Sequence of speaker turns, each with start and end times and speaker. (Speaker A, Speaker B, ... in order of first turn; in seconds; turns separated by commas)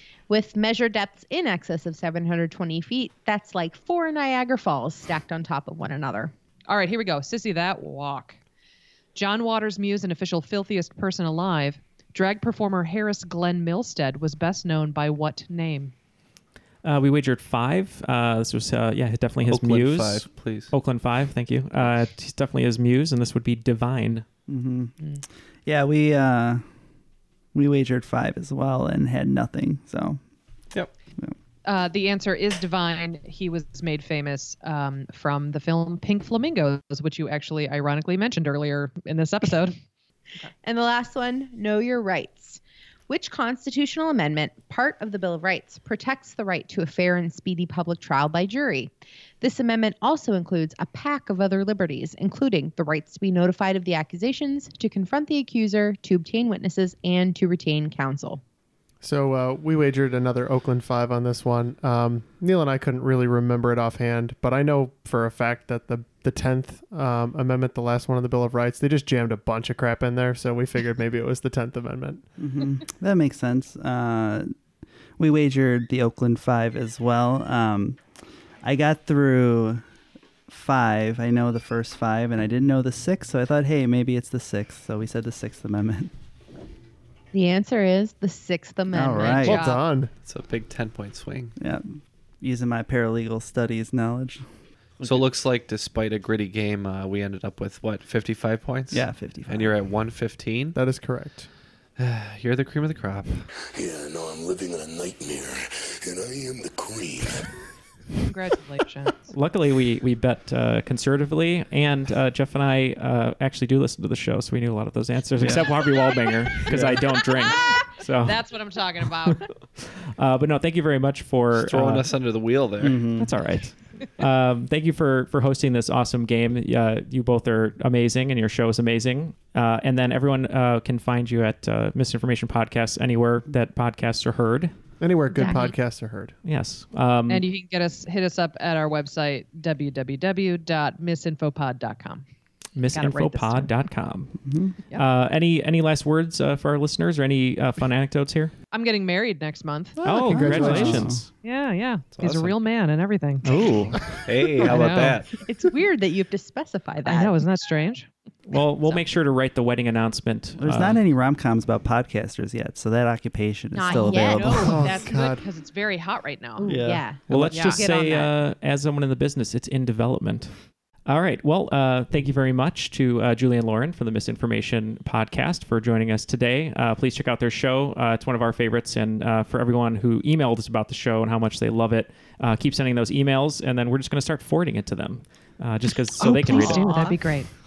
Speaker A: 0.3-6.3, Speaker B: 6.7-8.4, Speaker B: 9.2-15.9, Speaker C: 16.8-24.2, Speaker D: 19.4-20.7, Speaker E: 24.5-24.9, Speaker E: 25.7-26.6, Speaker E: 27.5-30.2, Speaker B: 31.6-39.8, Speaker A: 40.6-58.4, Speaker F: 59.0-72.2, Speaker E: 72.4-74.5, Speaker E: 75.2-78.0, Speaker E: 78.6-79.8, Speaker E: 80.5-86.1, Speaker A: 87.3-89.6, Speaker E: 88.9-89.6, Speaker B: 89.4-89.8, Speaker F: 89.4-90.1, Speaker D: 90.2-91.5, Speaker E: 91.6-94.4, Speaker D: 95.0-100.8, Speaker E: 98.9-99.8, Speaker F: 100.7-101.5, Speaker D: 102.0-103.5, Speaker G: 103.7-107.6, Speaker B: 108.3-109.3, Speaker C: 109.3-118.4, Speaker E: 115.4-115.7, Speaker E: 116.7-117.0, Speaker B: 118.2-119.5, Speaker C: 119.3-122.1, Speaker D: 121.5-123.0, Speaker E: 122.8-123.4, Speaker C: 123.2-134.7, Speaker F: 135.0-136.4, Speaker A: 135.3-135.8, Speaker C: 136.4-137.4, Speaker B: 137.3-142.2, Speaker C: 142.8-144.4, Speaker B: 142.9-143.7, Speaker E: 144.4-144.7, Speaker C: 144.9-148.5, Speaker B: 148.7-150.0, Speaker F: 150.0-151.1, Speaker C: 150.0-151.3, Speaker E: 150.3-151.2, Speaker B: 151.4-153.7, Speaker D: 152.2-152.6, Speaker C: 153.4-154.0, Speaker D: 154.2-155.3, Speaker B: 154.6-155.2, Speaker A: 155.4-157.3, Speaker B: 157.0-158.1, Speaker C: 158.5-161.0, Speaker E: 160.6-165.0, Speaker A: 163.7-164.7, Speaker B: 163.9-167.9, Speaker F: 164.5-165.4, Speaker A: 166.6-168.3, Speaker E: 166.7-167.5, Speaker C: 167.3-187.0, Speaker B: 186.2-187.5, Speaker A: 186.4-187.2